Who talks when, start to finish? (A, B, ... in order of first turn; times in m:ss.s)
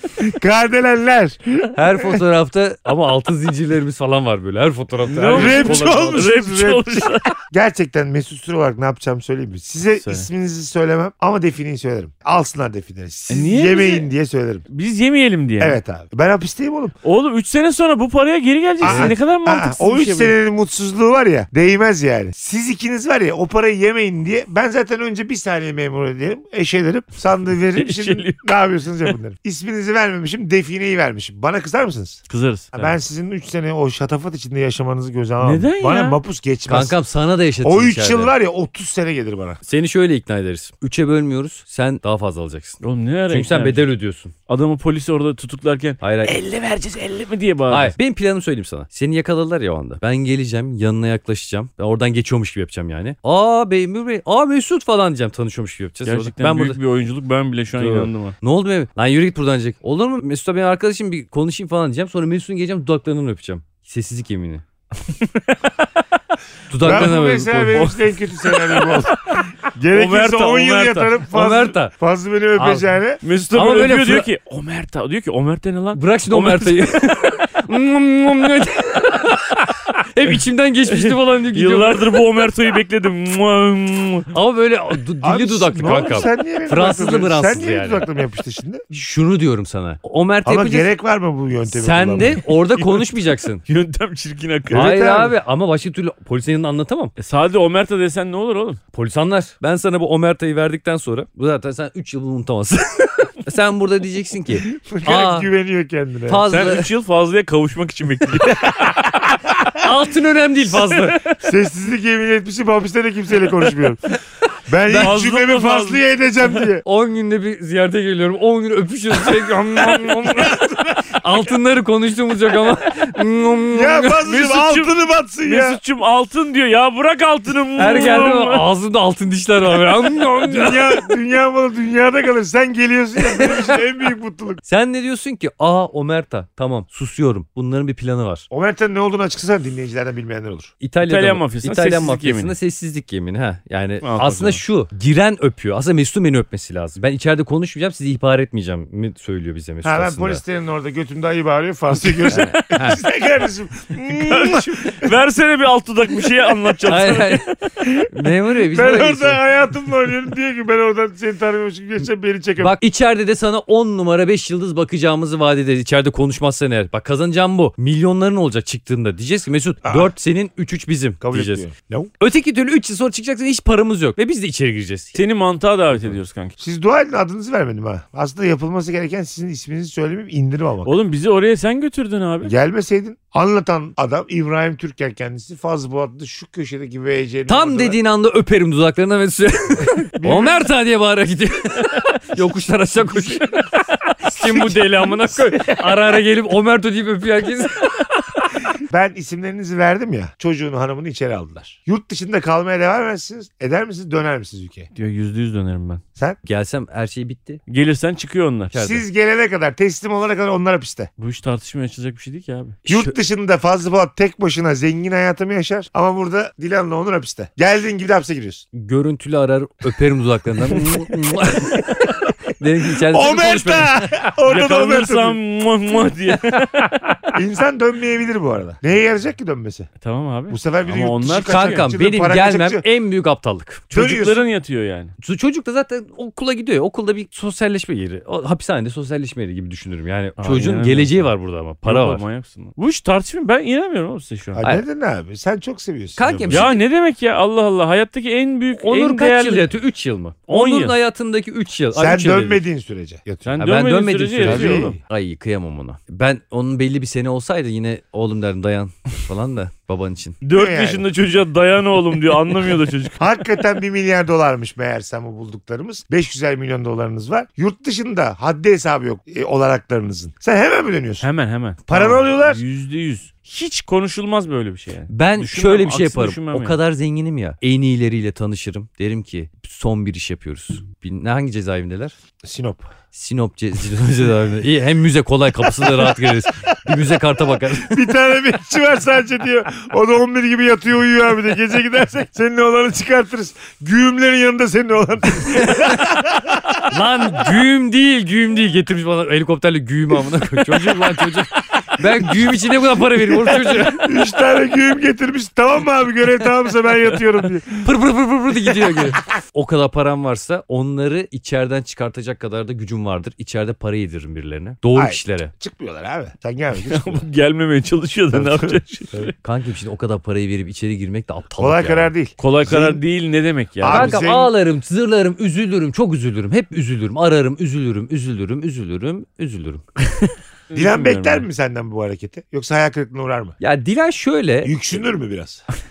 0:00.2-0:02.2 A
0:01.7-0:06.3 B
0:05.0-0:07.3 C
0:05.3-0:14.6 A
0:10.0-0:10.3 C
0:13.3-0:14.1 C
0:14.7-0:15.8 C
0:15.6-0:16.9 A
0:17.0-0:20.3 C
0:18.8-0:32.2 A
0:18.8-0:19.1 B
0:27.8-0:28.4 C
0:32.3-0:33.0 C
0:32.7-0:37.0 A
0:35.4-0:36.2 C
0:36.7-0:38.3 B
0:37.6-0:39.6 A
0:39.6-0:44.3 B
0:42.8-0:43.9 C
0:44.5-0:47.9 C
0:46.0-0:46.3 B
0:47.7-0:56.8 B
0:56.0-0:58.4 C
0:57.8-1:04.6 B
1:05.2-1:05.7 C
1:06.7-1:07.9 B
1:06.8-1:13.2 A
1:06.8-1:07.1 C
1:07.7-1:11.1 C
1:11.3-1:11.9 B
1:12.6-1:12.9 B
1:13.2-1:17.1 C
1:13.5-1:14.2 B
1:15.9-1:22.2 B
1:20.9-1:24.3 C
1:24.3-1:28.0 B
1:25.2-1:28.8 A
1:28.9-1:30.9 B
1:30.4-1:32.4 A
1:31.7-1:33.6 B
1:32.7-1:34.9 C
1:34.7-1:35.3 A
1:34.7-1:37.1 B
1:37.2-1:38.8 C
1:38.9-1:45.5 B
1:44.7-1:46.4 A
1:46.3-1:46.9 B
1:46.5-1:49.0 C
1:48.6-1:49.6 A
1:49.7-1:51.2 B
1:51.3-1:54.0 A
1:54.7-1:56.8 A
1:54.9-1:56.0 C
1:56.8-2:04.2 B
2:00.0-2:01.2 A
2:03.7-2:05.8 A
2:04.2-2:08.6 C
2:07.8-2:11.1 B
2:10.4-2:14.6 A
2:14.6-2:18.5 B
2:18.5-2:20.7 A
2:20.8-2:30.4 B
2:21.0-2:22.6 C
2:24.0-2:24.6 C
2:29.8-2:35.1 A
2:32.1-2:32.8 C
2:32.3-2:33.0 B
2:34.1-2:37.4 C
2:36.3-2:36.5 A
2:36.9-2:37.5 B
2:37.8-2:38.1 A
2:38.1-2:39.4 B
2:38.6-2:42.8 A
2:42.6-2:51.7 B
2:49.8-2:50.1 A
2:51.2-2:52.1 A
2:52.2-2:55.2 B
2:55.1-2:56.5 C
2:56.6-3:00.9 A
3:00.8-3:02.5 C
3:02.4-3:08.0 A
3:07.5-3:18.0 B
3:10.1-3:10.6 A
3:14.3-3:15.8 A
3:18.7-3:24.9 A
3:24.9-3:26.0 C
3:26.4-3:27.6 B
3:27.7-3:28.7 C
3:28.7-3:31.1 A
3:28.7-3:29.0 B
3:31.2-3:32.8 C
3:32.8-3:33.1 B
3:32.9-3:38.6 A
3:38.7-3:44.1 B
3:41.7-3:42.3 A
3:43.0-3:45.4 A
3:44.4-3:47.3 C
3:47.3-3:49.9 A
3:50.0-3:51.9 C
3:50.5-3:52.8 A
3:51.4-3:53.8 B
3:53.9-3:54.4 A
3:53.9-3:55.1 C
3:55.2-4:02.2 B
4:00.4-4:01.3 C
4:01.8-4:04.6 C
4:04.6-4:06.7 A
4:06.2-4:06.8 B
4:06.5-4:09.7 C
4:08.8-4:12.6 B
4:10.5-4:10.9 C
4:11.9-4:13.6 A
4:13.4-4:15.0 C
4:13.6-4:20.4 B
4:14.4-4:15.0 A
4:20.4-4:23.3 C
4:20.5-4:21.0 A
4:23.2-4:31.3 A
4:31.2-4:36.8 C
4:31.9-4:32.6 A
4:35.1-4:42.1 B
4:42.4-4:42.9 A
4:43.1-4:48.1 B
4:45.7-4:47.0 A
4:47.5-4:56.9 A
4:56.9-5:04.1 B
5:02.0-5:02.5 A
5:03.4-5:07.9 A
5:07.8-5:15.5 B
5:08.8-5:09.1 A
5:14.9-5:17.2 A
5:16.8-5:19.2 C
5:18.3-5:19.3 A
5:19.4-5:22.1 B
5:21.6-5:23.0 A
5:22.4-5:24.2 C
5:23.8-5:24.5 A
5:23.9-5:30.3 B
5:30.7-5:31.4 C
5:30.7-5:33.6 A
5:33.6-5:34.8 B
5:34.6-5:35.6 A